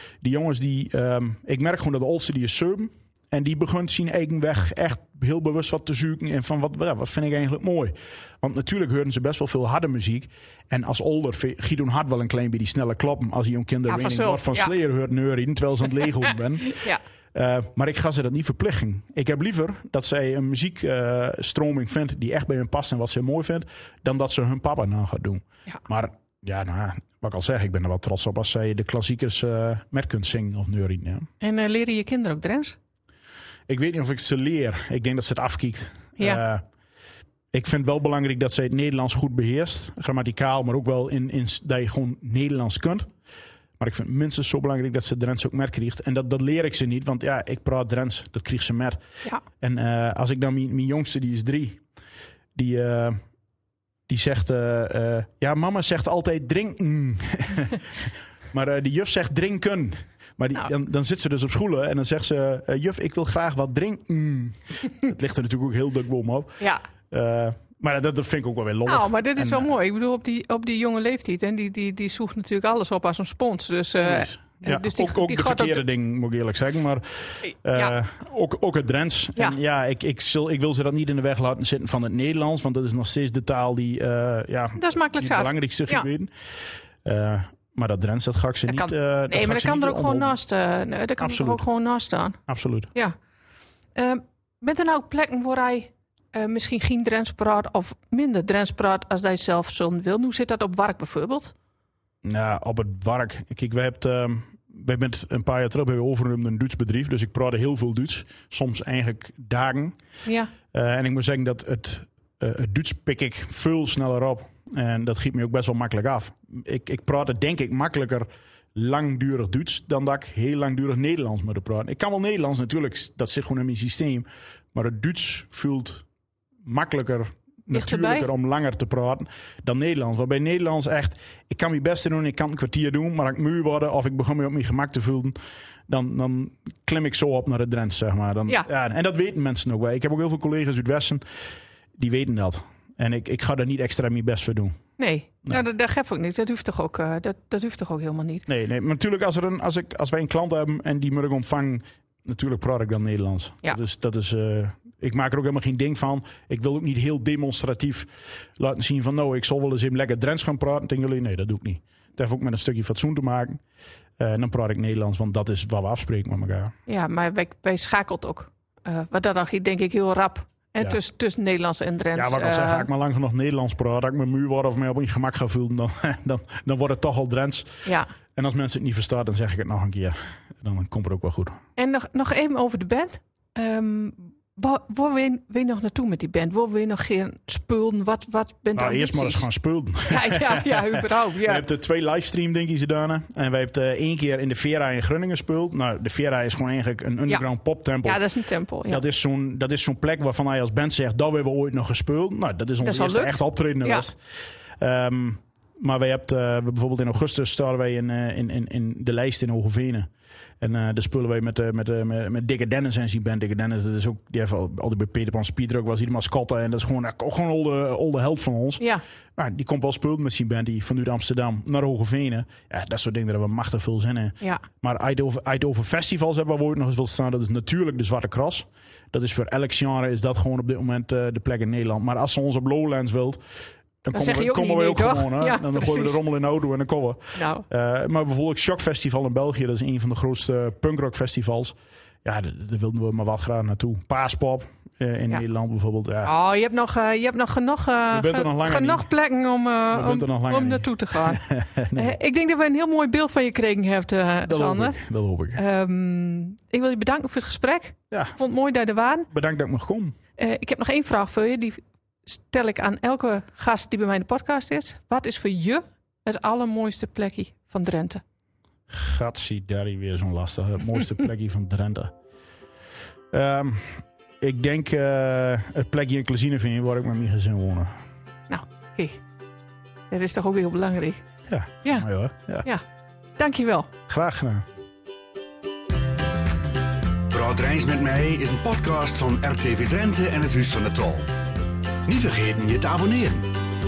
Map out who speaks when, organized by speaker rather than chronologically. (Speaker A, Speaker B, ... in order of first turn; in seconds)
Speaker A: 0.2-31.3, 33.7-36.6, 37.5-43.1, 43.8-49.0, 49.6-51.8, 52.5-53.2, 54.1-69.7, 74.0-86.3, 87.0-90.3, 91.2-91.6, 92.5-92.9, 102.2-110.0, 110.7-126.0, 126.6-135.4, 135.9-141.2, 142.0-144.8, 148.5-163.6, 164.2-166.8, 172.1-181.6, 188.8-198.2, 198.9-204.2, 204.8-210.1, 210.6-233.4, 234.0-246.3, 248.1-249.1, 249.9-252.2, 254.4-255.6, 259.3-260.1, 268.9-272.1, 273.3-278.0, 281.5-282.7, 284.1-284.6
Speaker B: 13.9-14.7, 16.7-17.0, 31.4-32.8, 68.9-75.8, 84.8-86.1, 88.7-92.4, 94.0-101.5, 110.2-110.5, 127.7-128.3, 145.0-148.4, 166.9-172.9, 181.8-189.5, 190.1-191.7, 198.0-199.0, 202.8-204.0, 234.1-236.2, 237.4-237.7, 246.2-255.0, 255.6-259.3, 260.4-268.2, 278.5-279.2, 280.1-281.2, 283.4-283.9
Speaker C: 287.3-291.3, 292.1-293.5